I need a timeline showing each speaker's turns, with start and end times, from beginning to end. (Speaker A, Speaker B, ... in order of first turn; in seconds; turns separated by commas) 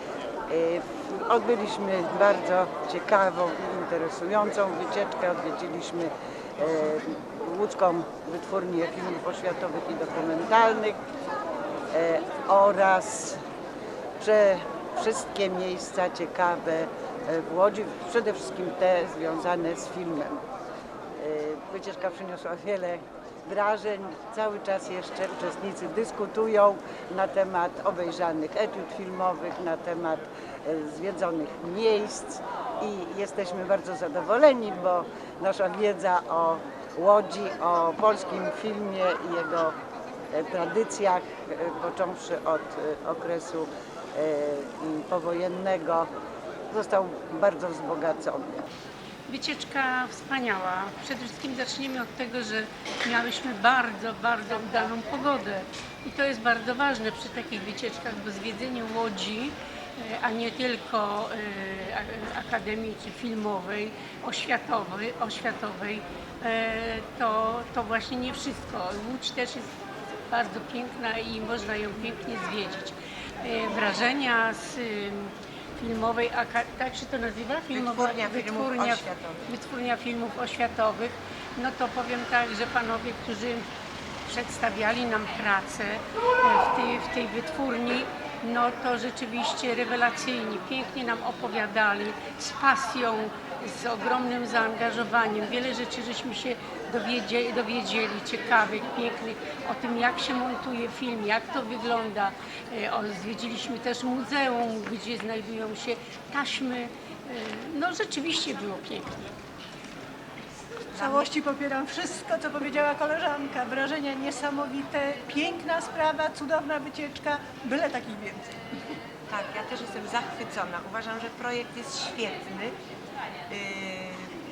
Speaker A: 0.5-11.0, Speaker A: 11.9-13.4, Speaker A: 14.2-20.4, Speaker A: 21.2-39.8, Speaker A: 40.3-46.1, Speaker A: 46.7-48.6, Speaker B: 49.3-69.7, Speaker B: 70.3-83.7, Speaker C: 77.7-79.5, Speaker B: 84.3-109.3, Speaker C: 111.0-111.3, Speaker D: 111.0-118.5, Speaker C: 119.3-122.8, Speaker C: 123.5-124.3